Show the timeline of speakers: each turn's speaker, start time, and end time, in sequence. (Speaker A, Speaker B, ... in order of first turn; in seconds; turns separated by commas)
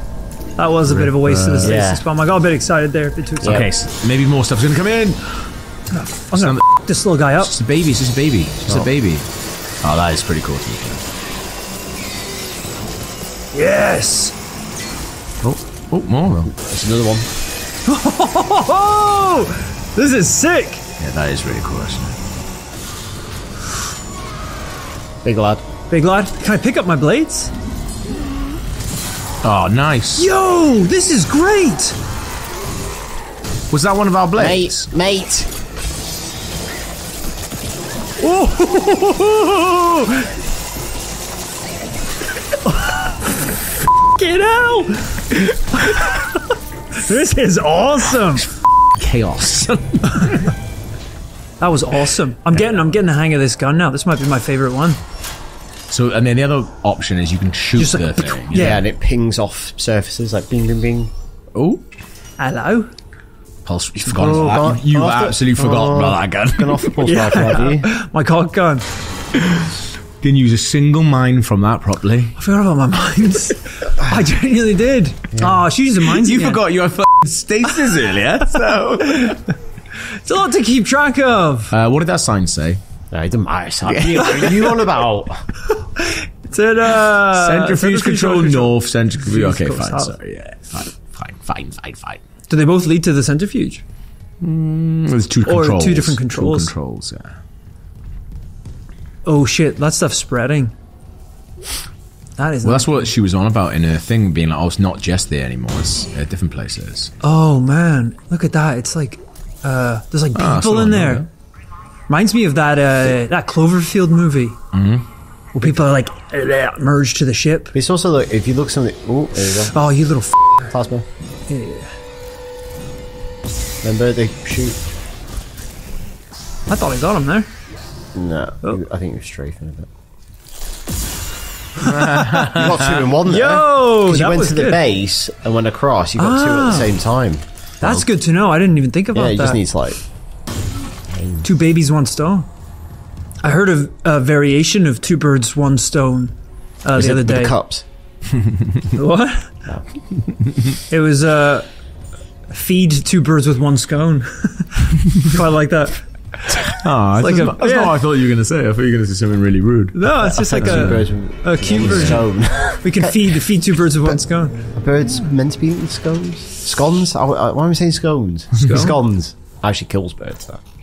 Speaker A: 0.6-3.6, Speaker B: 0.9-1.8, Speaker C: 1.6-2.0, Speaker C: 3.4-3.7, Speaker B: 3.4-5.5, Speaker A: 5.9-7.5, Speaker B: 6.3-6.6, Speaker B: 7.3-9.2, Speaker B: 9.8-11.0, Speaker A: 13.5-14.3, Speaker B: 15.4-16.5, Speaker C: 16.4-17.3, Speaker A: 17.9-20.8, Speaker B: 21.0-22.2, Speaker C: 25.2-25.6, Speaker A: 25.9-27.5, Speaker B: 29.4-30.3, Speaker A: 30.2-32.0, Speaker B: 33.7-34.9, Speaker C: 34.4-35.5, Speaker A: 38.2-40.3, Speaker A: 42.6-43.1, Speaker A: 44.1-46.4, Speaker A: 47.0-48.5, Speaker B: 48.9-50.5, Speaker A: 51.6-55.0, Speaker B: 55.9-58.7, Speaker A: 57.8-58.8, Speaker C: 58.5-61.1, Speaker B: 61.5-61.8, Speaker A: 62.4-62.9, Speaker B: 63.6-67.1, Speaker C: 64.1-67.9, Speaker A: 67.0-68.8, Speaker B: 69.4-72.4, Speaker A: 72.4-76.6, Speaker C: 75.3-75.6, Speaker B: 76.0-79.4, Speaker A: 80.2-81.7, Speaker B: 81.7-82.8, Speaker C: 83.1-85.4, Speaker B: 83.8-84.8, Speaker A: 85.7-90.1, Speaker B: 87.2-92.2, Speaker A: 92.5-93.8, Speaker B: 94.4-97.4, Speaker A: 95.5-96.7, Speaker A: 99.2-100.7, Speaker A: 102.4-103.1, Speaker B: 102.6-107.1, Speaker A: 107.2-111.2, Speaker B: 110.3-111.3, Speaker A: 112.1-114.6, Speaker B: 114.7-115.0, Speaker A: 115.5-117.7, Speaker C: 117.7-119.8, Speaker A: 119.7-120.7, Speaker C: 120.7-121.0, Speaker A: 121.5-121.9, Speaker C: 123.8-124.8, Speaker A: 126.7-127.5, Speaker C: 128.1-129.9, Speaker B: 131.8-133.0, Speaker A: 131.8-132.5, Speaker C: 132.4-137.4, Speaker A: 133.2-134.8, Speaker A: 136.2-136.9, Speaker A: 137.8-139.6, Speaker C: 139.1-140.0, Speaker C: 141.1-141.4, Speaker A: 141.4-142.5, Speaker A: 143.4-147.6, Speaker C: 146.9-147.8, Speaker B: 148.3-148.8, Speaker A: 148.9-149.5, Speaker A: 150.9-151.7, Speaker A: 152.5-157.9, Speaker B: 156.7-161.1, Speaker A: 159.9-164.7, Speaker C: 160.2-163.4, Speaker B: 161.8-162.2, Speaker C: 164.0-170.6, Speaker A: 168.6-169.0